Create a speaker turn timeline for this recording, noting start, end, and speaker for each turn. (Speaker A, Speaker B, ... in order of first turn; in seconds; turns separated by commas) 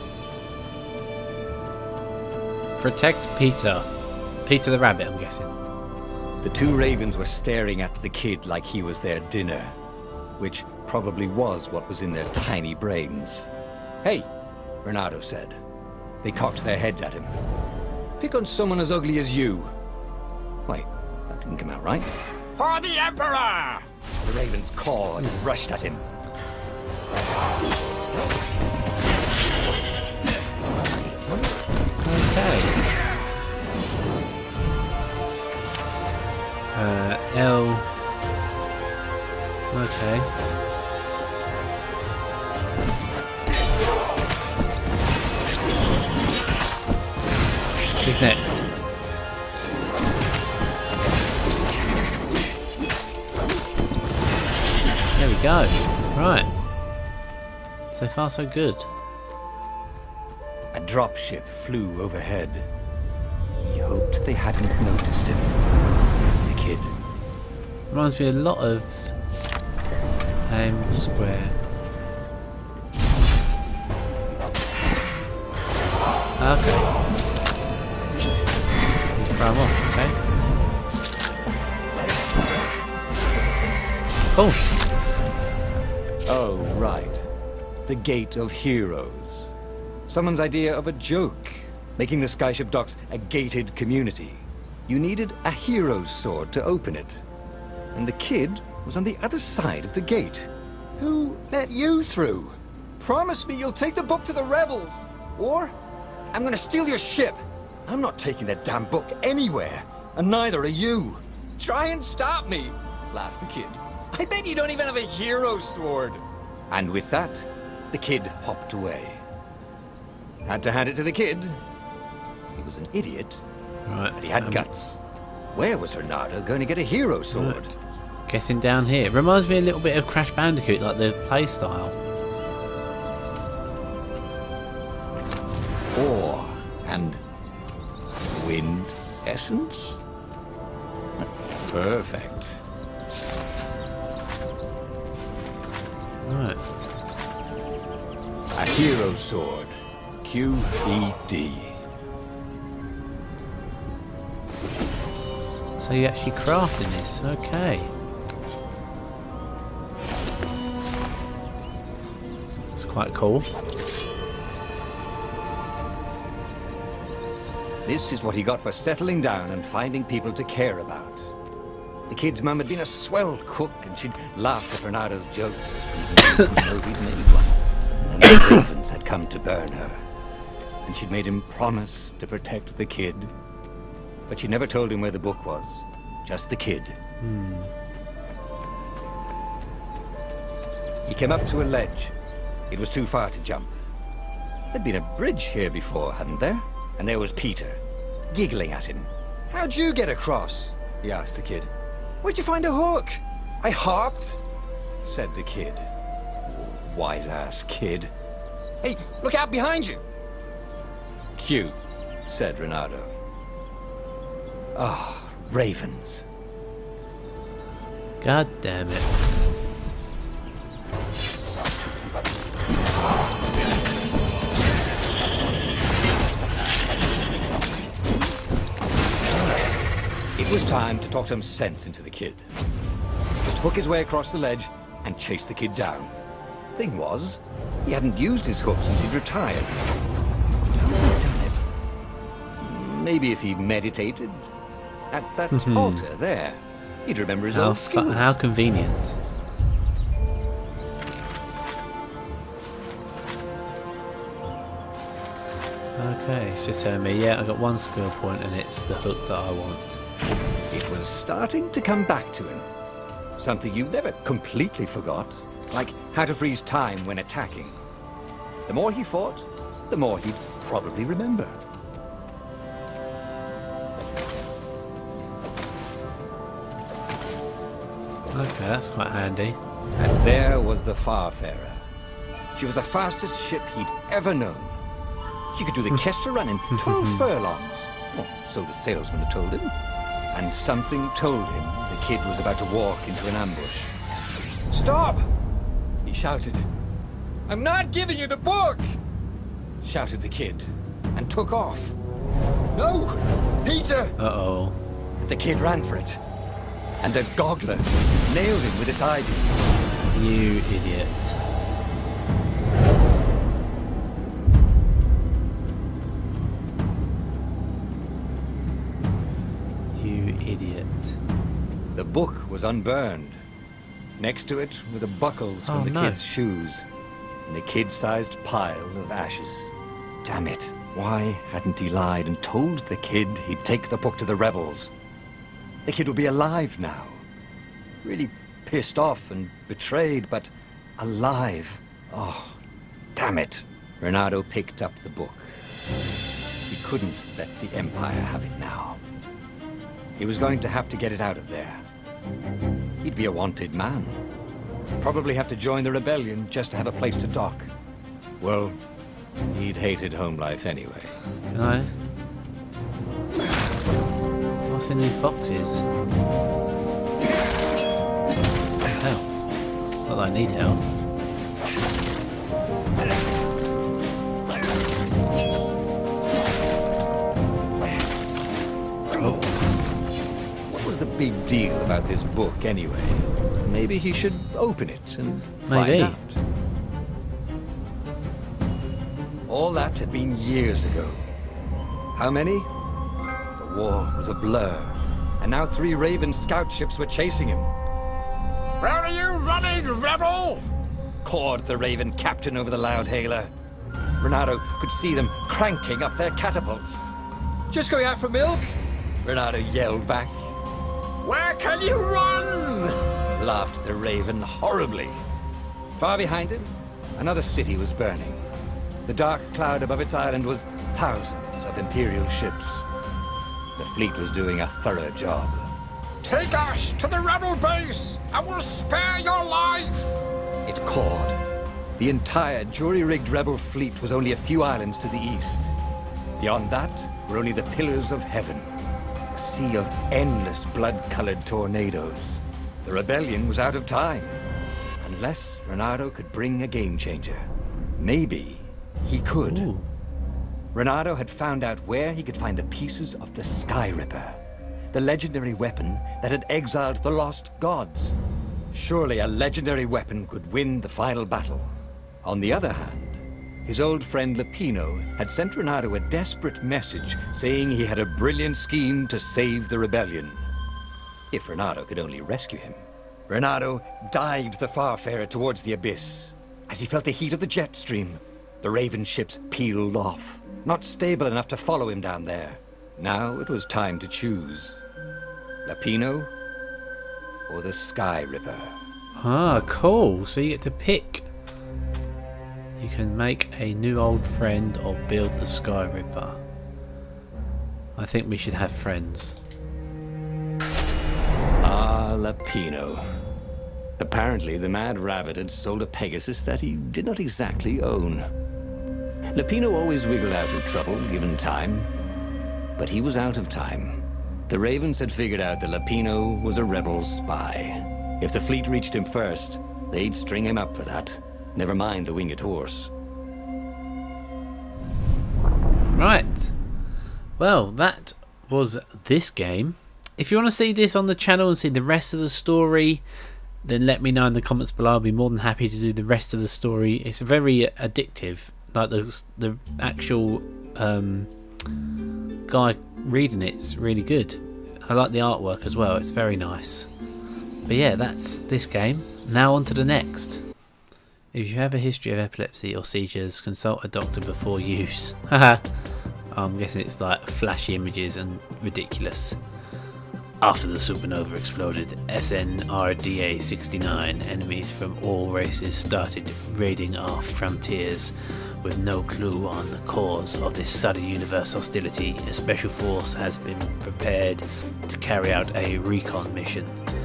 Speaker A: 2.8-3.9, Speaker A: 4.5-5.5, Speaker B: 6.4-9.8, Speaker B: 10.4-13.5, Speaker B: 14.0-14.3, Speaker B: 14.8-15.6, Speaker B: 16.2-17.4, Speaker B: 18.2-19.8, Speaker B: 20.7-26.1, Speaker A: 32.0-32.8, Speaker A: 36.7-37.9, Speaker A: 39.7-40.3, Speaker A: 48.0-48.6, Speaker A: 55.2-56.5, Speaker A: 57.9-58.9, Speaker B: 60.7-62.7, Speaker B: 63.6-65.6, Speaker B: 66.4-67.0, Speaker A: 67.9-69.1, Speaker A: 70.5-71.6, Speaker A: 76.4-77.0, Speaker A: 79.2-80.2, Speaker A: 84.3-84.7, Speaker B: 86.3-87.3, Speaker B: 87.9-89.5, Speaker B: 90.1-97.2, Speaker B: 97.9-105.8, Speaker B: 106.3-119.2, Speaker B: 120.5-121.6, Speaker B: 122.5-123.4, Speaker A: 123.9-124.7, Speaker B: 124.2-125.0, Speaker B: 125.5-127.7, Speaker A: 127.3-131.9, Speaker B: 135.9-137.2, Speaker B: 138.3-140.0, Speaker B: 141.2-142.6, Speaker A: 146.2-146.6, Speaker B: 148.6-151.8, Speaker A: 155.8-157.9, Speaker A: 162.8-163.5, Speaker B: 167.8-171.3, Speaker B: 172.1-180.0, Speaker B: 180.8-183.3, Speaker B: 184.3-187.0, Speaker A: 187.2-187.7, Speaker B: 191.1-192.1, Speaker B: 192.7-193.7, Speaker B: 194.7-201.7, Speaker B: 202.2-204.4, Speaker B: 205.0-205.9, Speaker B: 206.4-208.1, Speaker B: 208.8-210.0, Speaker B: 211.4-213.1, Speaker B: 214.8-216.3, Speaker A: 218.2-219.1, Speaker A: 229.3-229.7, Speaker B: 230.4-232.5, Speaker B: 233.4-236.2, Speaker B: 236.7-239.8, Speaker B: 240.7-241.6, Speaker B: 242.6-244.5, Speaker B: 245.1-248.4, Speaker A: 245.5-246.0, Speaker A: 247.5-249.2, Speaker A: 256.0-260.0, Speaker B: 260.7-262.7, Speaker B: 263.4-267.8, Speaker B: 268.7-271.6, Speaker A: 278.3-279.6, Speaker B: 280.0-281.9, Speaker B: 282.5-284.8, Speaker B: 285.5-289.7, Speaker A: 286.7-287.2, Speaker B: 290.3-294.0, Speaker B: 294.7-295.3, Speaker B: 296.0-296.7, Speaker B: 297.5-299.0, Speaker B: 299.8-302.0, Speaker B: 302.7-304.2, Speaker A: 304.2-304.8, Speaker B: 305.2-306.2, Speaker B: 307.0-309.7, Speaker A: 310.1-311.4, Speaker A: 319.9-321.2, Speaker B: 321.9-323.4, Speaker B: 324.2-326.9, Speaker A: 325.7-326.2, Speaker B: 327.5-329.7, Speaker B: 330.2-334.9, Speaker B: 335.9-337.2, Speaker B: 338.0-342.6, Speaker B: 343.1-345.6, Speaker B: 346.7-349.0, Speaker B: 350.2-351.9, Speaker B: 353.0-354.2, Speaker B: 355.0-357.7, Speaker B: 358.4-358.8, Speaker B: 359.5-361.1, Speaker A: 361.5-361.9, Speaker A: 364.7-365.9, Speaker A: 368.9-369.3, Speaker A: 370.1-370.8, Speaker B: 379.1-379.5, Speaker A: 379.2-379.6, Speaker B: 380.7-386.4, Speaker A: 385.7-386.2, Speaker B: 389.5-391.3, Speaker B: 392.1-392.7, Speaker B: 393.6-397.7, Speaker B: 398.8-400.7, Speaker B: 401.2-403.5, Speaker B: 404.2-407.1, Speaker B: 407.7-408.7, Speaker B: 409.2-410.5, Speaker B: 411.2-415.2, Speaker B: 416.0-418.5, Speaker B: 419.1-422.9, Speaker B: 423.8-425.7, Speaker B: 426.2-431.4, Speaker B: 432.0-435.8, Speaker B: 436.4-438.8, Speaker B: 439.3-444.4, Speaker B: 445.0-449.7, Speaker A: 449.5-449.9, Speaker B: 450.7-454.4, Speaker B: 454.9-458.2, Speaker B: 458.7-461.7, Speaker B: 462.2-470.5, Speaker B: 471.3-484.8, Speaker B: 485.6-486.3, Speaker B: 487.5-488.8, Speaker A: 489.2-491.3, Speaker A: 492.8-496.4, Speaker A: 498.0-499.4, Speaker B: 501.6-503.0, Speaker B: 504.0-508.3, Speaker B: 509.3-511.9, Speaker B: 512.8-522.9, Speaker A: 525.9-526.5, Speaker A: 527.4-533.0, Speaker A: 533.6-541.3, Speaker A: 542.5-546.9, Speaker A: 547.7-550.4, Speaker A: 551.3-555.6, Speaker A: 556.3-559.4, Speaker A: 560.4-576.8